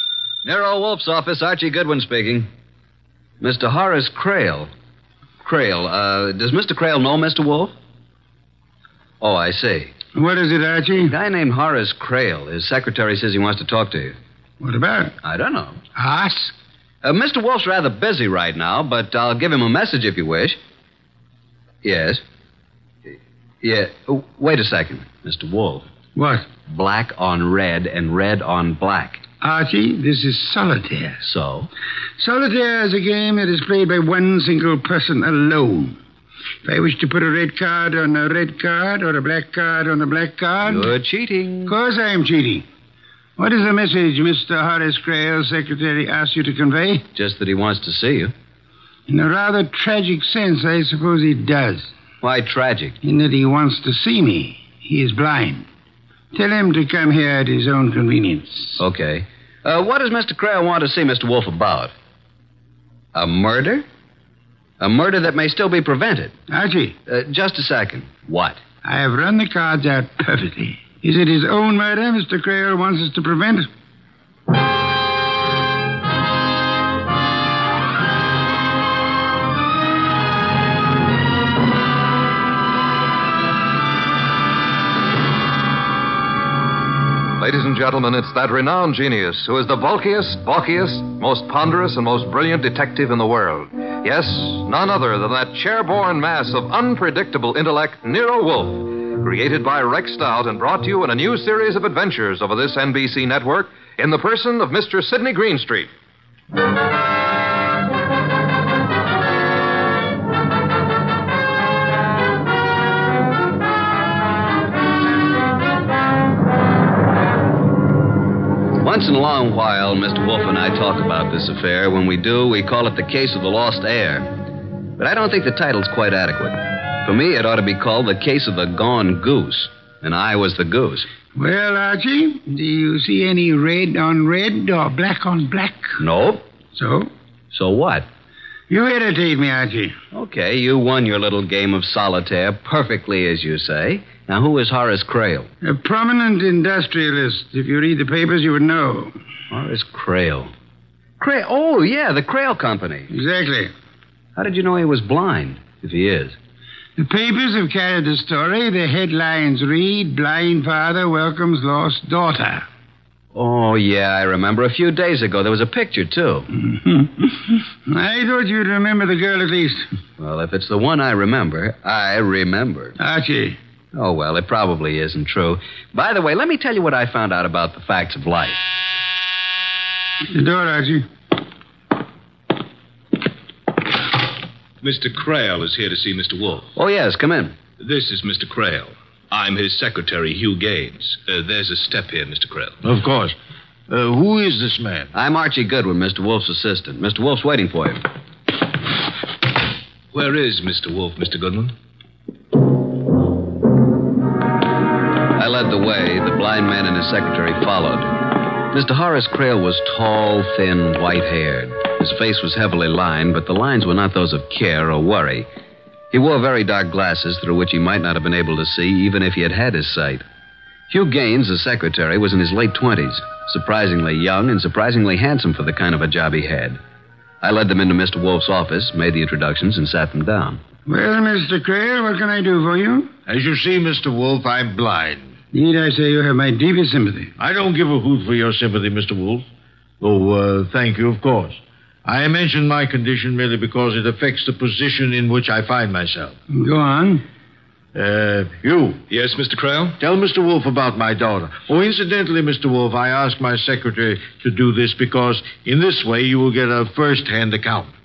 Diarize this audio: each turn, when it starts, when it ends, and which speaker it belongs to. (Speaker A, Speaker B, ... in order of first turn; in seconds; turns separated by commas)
Speaker A: 0.4-2.5, Speaker A: 3.4-4.7, Speaker A: 5.4-7.7, Speaker A: 9.2-9.9, Speaker B: 10.1-11.1, Speaker A: 11.0-14.2, Speaker B: 14.6-15.1, Speaker A: 15.2-15.8, Speaker B: 15.9-16.5, Speaker A: 17.0-20.6, Speaker A: 21.8-22.2, Speaker A: 23.1-25.9, Speaker B: 26.1-26.5, Speaker A: 26.7-29.2, Speaker B: 29.4-31.2, Speaker A: 31.2-31.7, Speaker B: 32.2-36.0, Speaker B: 36.6-40.9, Speaker A: 40.6-41.8, Speaker B: 41.6-42.7, Speaker B: 43.4-47.0, Speaker A: 47.1-48.3, Speaker B: 49.1-51.9, Speaker A: 52.2-53.0, Speaker B: 53.0-55.6, Speaker B: 56.3-58.8, Speaker A: 58.8-61.9, Speaker A: 63.1-63.9, Speaker A: 64.8-66.3, Speaker B: 66.5-66.9, Speaker A: 67.1-68.6, Speaker B: 68.8-73.7, Speaker C: 87.4-105.9, Speaker A: 118.8-124.4, Speaker A: 125.0-131.1, Speaker B: 131.3-136.0, Speaker A: 136.0-136.4, Speaker B: 136.7-137.1, Speaker A: 137.5-138.1, Speaker B: 138.7-139.9, Speaker A: 140.1-145.5, Speaker B: 145.6-149.1, Speaker A: 149.5-150.5, Speaker A: 151.2-153.1, Speaker B: 153.1-153.7, Speaker A: 154.3-156.4, Speaker B: 157.0-162.7, Speaker A: 163.3-166.5, Speaker B: 166.5-169.9, Speaker A: 170.2-173.0, Speaker B: 173.0-173.6, Speaker A: 173.9-178.7, Speaker B: 180.3-181.1, Speaker D: 184.8-186.7, Speaker A: 186.7-187.6, Speaker D: 187.8-192.8, Speaker E: 192.8-193.3, Speaker E: 193.9-195.1, Speaker A: 195.1-198.0, Speaker D: 200.1-201.7, Speaker A: 205.3-215.5, Speaker A: 216.1-220.2, Speaker A: 220.9-226.8, Speaker A: 227.4-230.6, Speaker B: 230.8-233.1, Speaker E: 233.3-235.3, Speaker B: 235.5-237.3, Speaker E: 237.4-239.4, Speaker E: 240.0-246.3, Speaker B: 246.5-247.2, Speaker E: 247.9-249.0, Speaker D: 249.1-250.0, Speaker E: 250.0-257.9